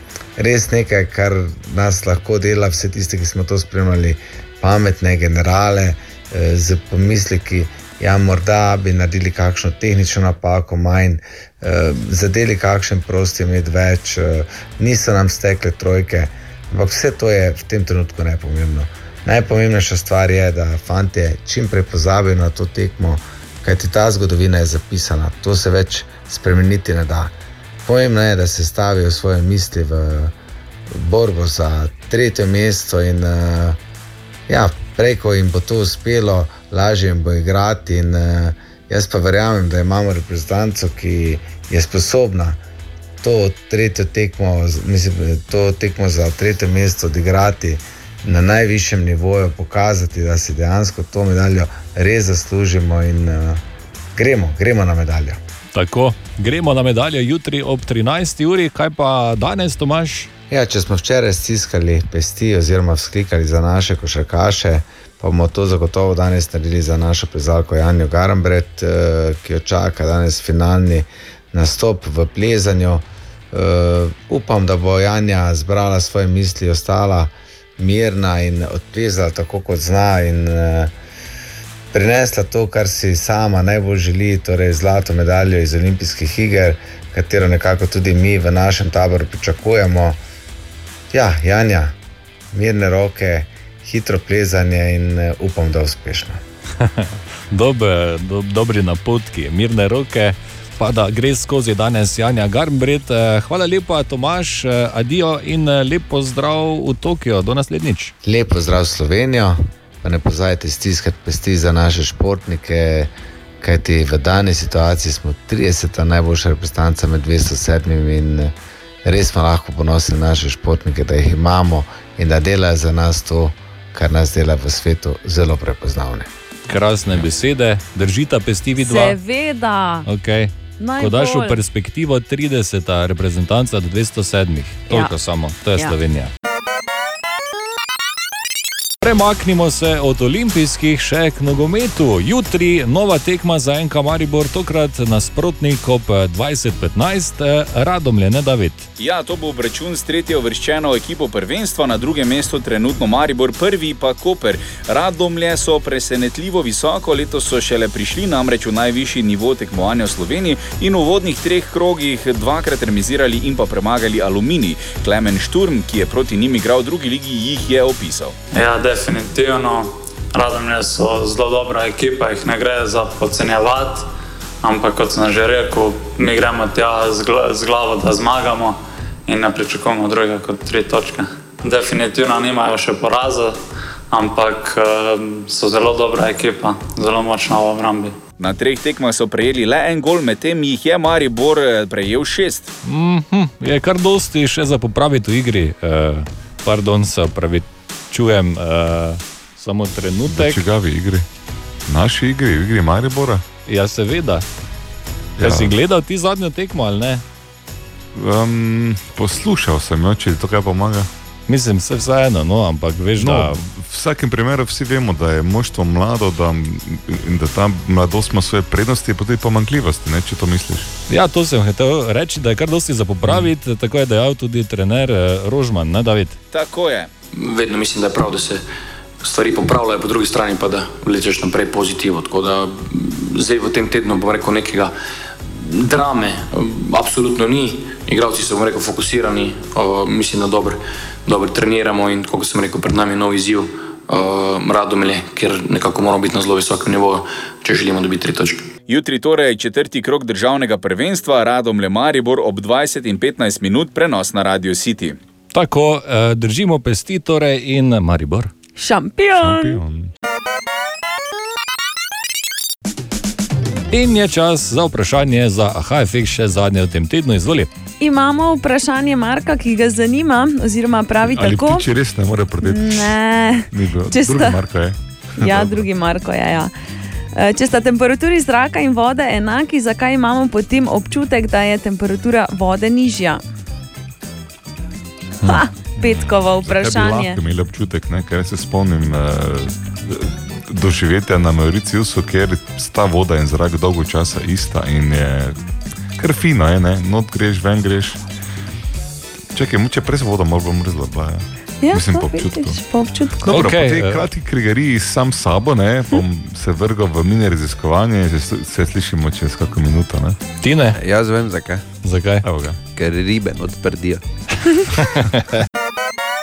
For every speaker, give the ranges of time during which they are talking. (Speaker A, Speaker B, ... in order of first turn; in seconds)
Speaker A: 0.4-27.3, 27.9-30.3, 30.9-33.8, 34.5-42.6, 43.2-53.6, 54.2-55.4, 60.5-80.9, 81.9-90.2, 91.1-91.9, 92.5-96.4, 108.2-113.1, 113.6-118.5, 119.0-126.3
Speaker B: 55.7-60.3, 96.8-108.1, 126.7-129.2, 130.1-136.3, 139.0-148.9, 192.8-200.6, 203.7-204.4, 205.4-207.2, 211.5-213.6, 221.1-226.4, 255.5-258.5, 263.9-267.7, 303.5-304.2, 310.6-311.0, 312.0-312.4
Speaker C: 128.8-130.1, 130.8-131.6, 134.9-135.1, 258.8-259.8, 268.0-271.9, 272.6-274.6, 275.4-276.7, 277.4-283.4, 285.4-287.4, 301.8-303.7
Speaker D: 149.0-168.4, 188.4-192.7, 226.5-227.1, 248.9-255.2
Speaker E: 168.5-174.1, 174.6-183.6, 184.1-188.2
Speaker F: 200.3-201.3, 201.9-203.4, 205.4-205.7, 208.1-211.1, 213.2-220.9, 259.4-260.1, 271.3-273.1, 273.7-275.9, 286.0-295.6, 296.2-298.2, 299.5-302.8, 303.4-310.4, 312.4-312.8
Speaker G: 227.3-228.6, 229.2-234.9, 235.6-248.6
Speaker H: 310.9-311.8, 313.0-314.2